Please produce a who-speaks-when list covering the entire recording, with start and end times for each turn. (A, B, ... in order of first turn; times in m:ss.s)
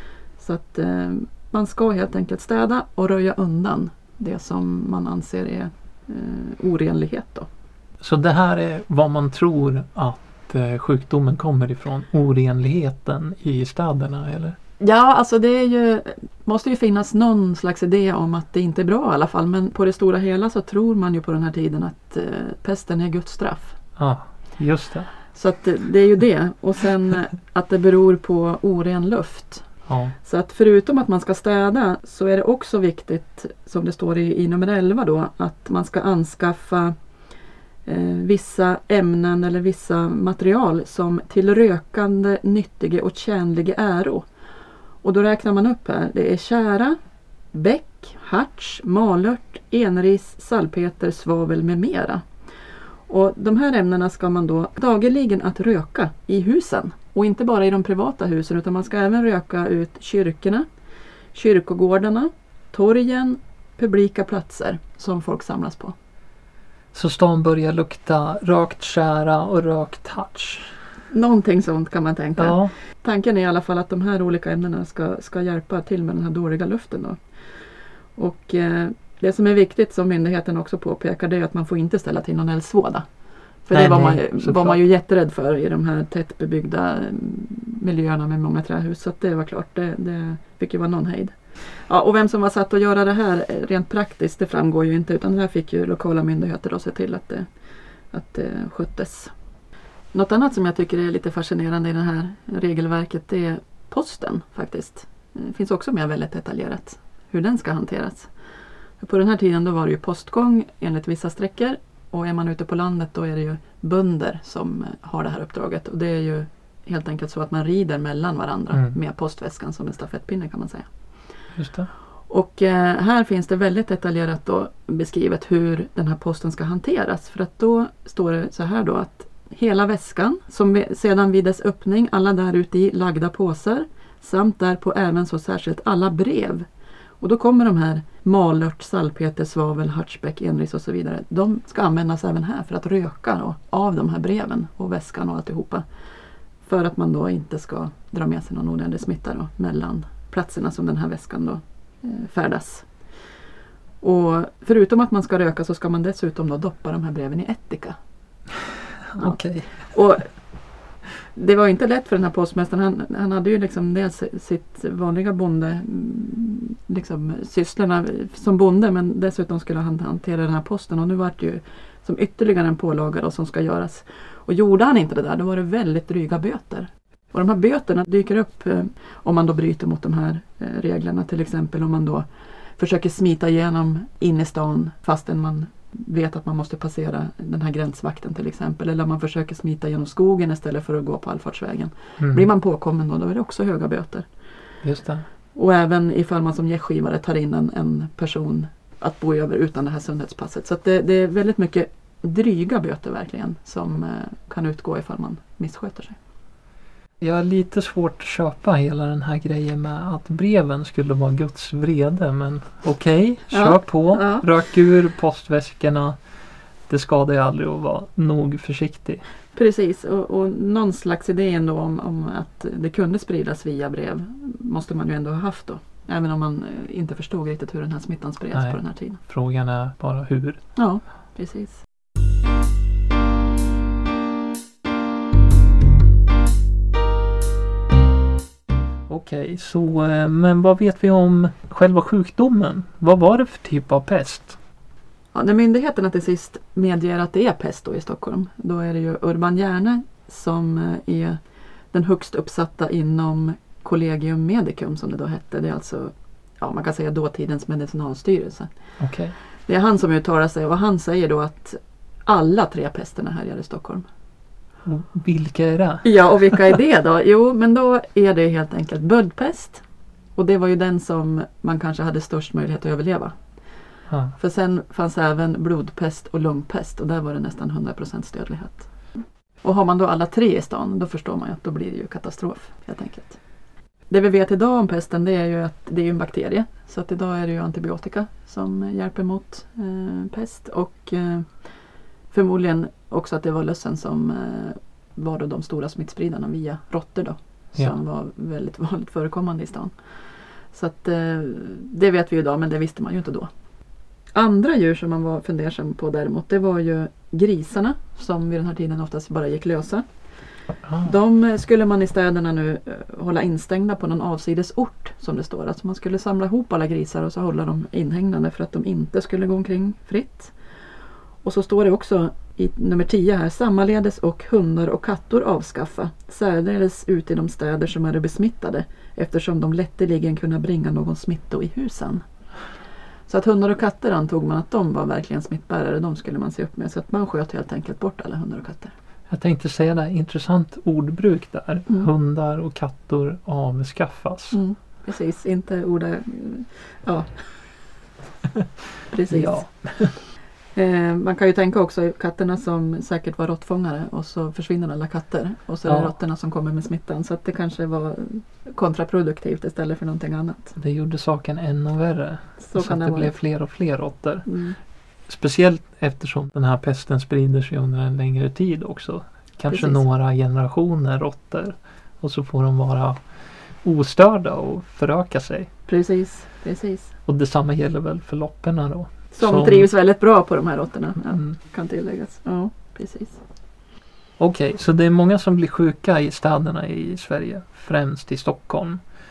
0:00.4-0:07.5 A
0:08.0-0:14.6 B
0:14.8-0:23.8 A
0:24.0-0:25.1 B
0:25.3-0:29.7 A
0:29.9-0:30.1 B
0:30.2-0:36.9 A
0:37.8-0:44.3 A
0:45.0-0:47.0 A
0:47.5-0:52.2 A
0:53.1-1:00.6 A
1:01.3-1:05.9 A
1:06.9-1:10.8 B
1:11.1-1:23.0 A
1:12.4-1:12.7 B
1:23.6-1:37.5 A
1:23.7-1:24.8 B
1:38.1-1:39.3 A
1:40.1-1:48.3 A
1:49.0-2:00.9 A
2:01.6-2:01.9 B
2:02.3-2:16.6 A
2:17.2-2:25.8 A
2:26.6-2:32.9 A
2:34.0-2:38.0 A
2:39.0-2:39.9 B
2:39.2-2:40.4 A
2:41.3-3:02.2 A
3:02.8-3:14.2 A
3:12.2-3:12.5 B
3:14.8-3:15.2 B
3:15.5-3:26.2 A
3:27.2-3:36.2 B
3:33.5-3:34.4 A
3:36.9-3:39.2 B
3:39.5-3:49.2 A
3:48.5-3:50.7 B
3:50.8-3:51.8 A
3:59.1-4:04.6 B
4:05.3-4:11.4 A
4:11.9-4:18.7 A
4:19.0-4:19.3 B
4:19.6-4:24.0 A
4:24.8-4:26.7 B
4:26.0-4:29.8 A
4:30.4-4:33.4 A
4:34.1-4:34.3 B
4:34.4-4:38.9 A
4:39.6-4:43.4 A
4:44.1-4:51.6 A
4:52.3-4:59.9 A
5:00.7-5:03.5 A
5:04.3-5:10.1 A
5:10.8-5:11.1 B
5:11.0-5:20.5 A
5:21.4-5:32.2 A
5:33.3-5:38.9 A
5:39.3-5:44.6 B
5:44.5-5:47.4 A
5:49.1-5:49.7 A
5:49.3-5:50.2 B
5:50.7-6:00.7 A
5:55.8-5:56.1 B
6:00.8-6:04.5 B
6:02.6-6:03.3 A
6:04.4-6:04.8 A
6:05.3-6:15.7 B
6:09.7-6:10.0 A
6:15.9-6:17.1 A
6:17.2-6:19.9 B
6:19.3-6:23.4 A
6:21.3-6:21.5 B
6:24.4-6:29.0 B